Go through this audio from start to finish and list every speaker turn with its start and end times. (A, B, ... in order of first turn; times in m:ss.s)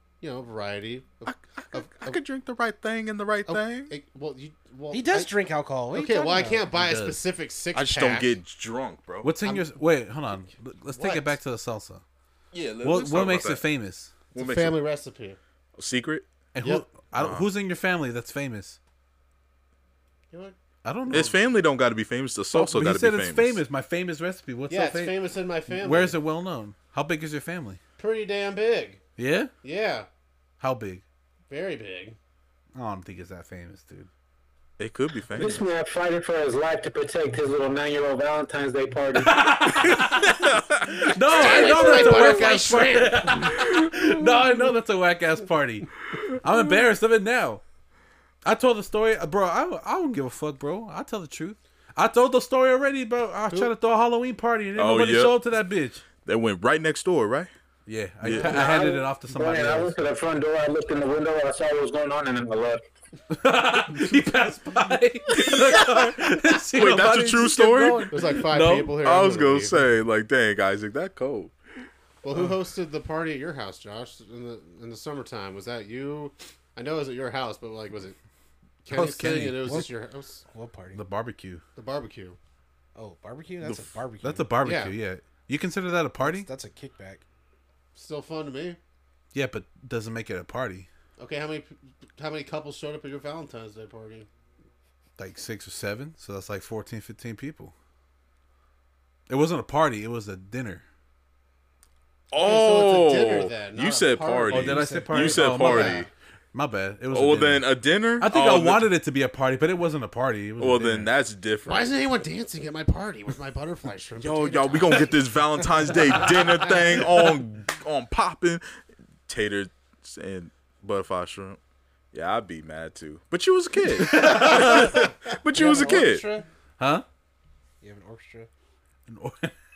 0:00.2-0:02.2 A
0:01.3-0:04.0 B
0:03.5-0:05.3 A
0:04.9-0:06.7 C
0:05.9-0:08.4 A
0:06.7-0:07.2 D
0:07.7-0:09.3 B
0:09.2-0:12.0 D
0:09.4-0:09.7 A
0:10.9-0:11.4 A
0:12.5-0:13.6 B
0:12.8-0:14.1 D
0:14.3-0:15.4 A
0:14.4-0:14.8 B
0:15.8-0:16.3 B
0:16.5-0:18.8 D
0:17.1-0:17.5 B
0:20.8-0:21.4 D
0:21.1-0:23.6 B
0:22.5-0:27.8 D
0:24.7-0:26.2 A
0:28.0-0:29.0 A
0:29.2-0:29.5 D
0:29.6-0:30.1 A
0:30.6-0:31.0 D
0:31.5-0:32.2 A
0:32.8-0:34.1 D
0:34.8-0:35.6 B
0:35.4-0:39.7 E
0:39.2-0:47.6 D
0:40.2-0:41.1 B
0:41.3-0:43.5 A
0:43.6-0:44.3 B
0:46.1-0:46.7 B
0:48.4-0:56.1 D
0:54.8-0:55.4 B
0:56.3-0:57.5 B
0:57.9-1:00.0 D
0:58.2-0:58.6 B
0:58.3-1:02.9 E
1:03.3-1:09.0 D
1:05.4-1:08.4 B
1:08.1-1:09.8 A
1:09.0-1:11.8 B
1:12.2-1:18.2 A
1:18.8-1:20.4 A
1:18.9-1:19.8 D
1:19.6-1:19.9 C
1:20.4-1:21.0 C
1:20.9-1:21.6 D
1:21.8-1:22.4 A
1:23.0-1:24.5 C
1:23.6-1:24.0 B
1:24.2-1:26.5 D
1:24.6-1:25.0 A
1:26.2-1:27.2 C
1:28.0-1:28.8 A
1:29.3-1:30.9 D
1:31.2-1:34.3 A
1:35.2-1:37.7 D
1:39.3-1:40.8 D
1:42.3-1:46.1 B
1:42.3-1:46.0 A
1:44.5-1:46.0 D
1:44.5-1:46.0 C
1:46.5-1:51.1 D
1:47.1-1:48.9 B
1:50.6-1:51.9 B
1:51.7-1:55.2 A
1:54.2-1:58.6 B
1:59.3-2:01.6 B
2:02.1-2:06.3 B
2:03.9-2:05.1 D
2:05.5-2:06.5 C
2:06.8-2:07.0 D
2:07.8-2:08.5 C
2:09.1-2:09.5 D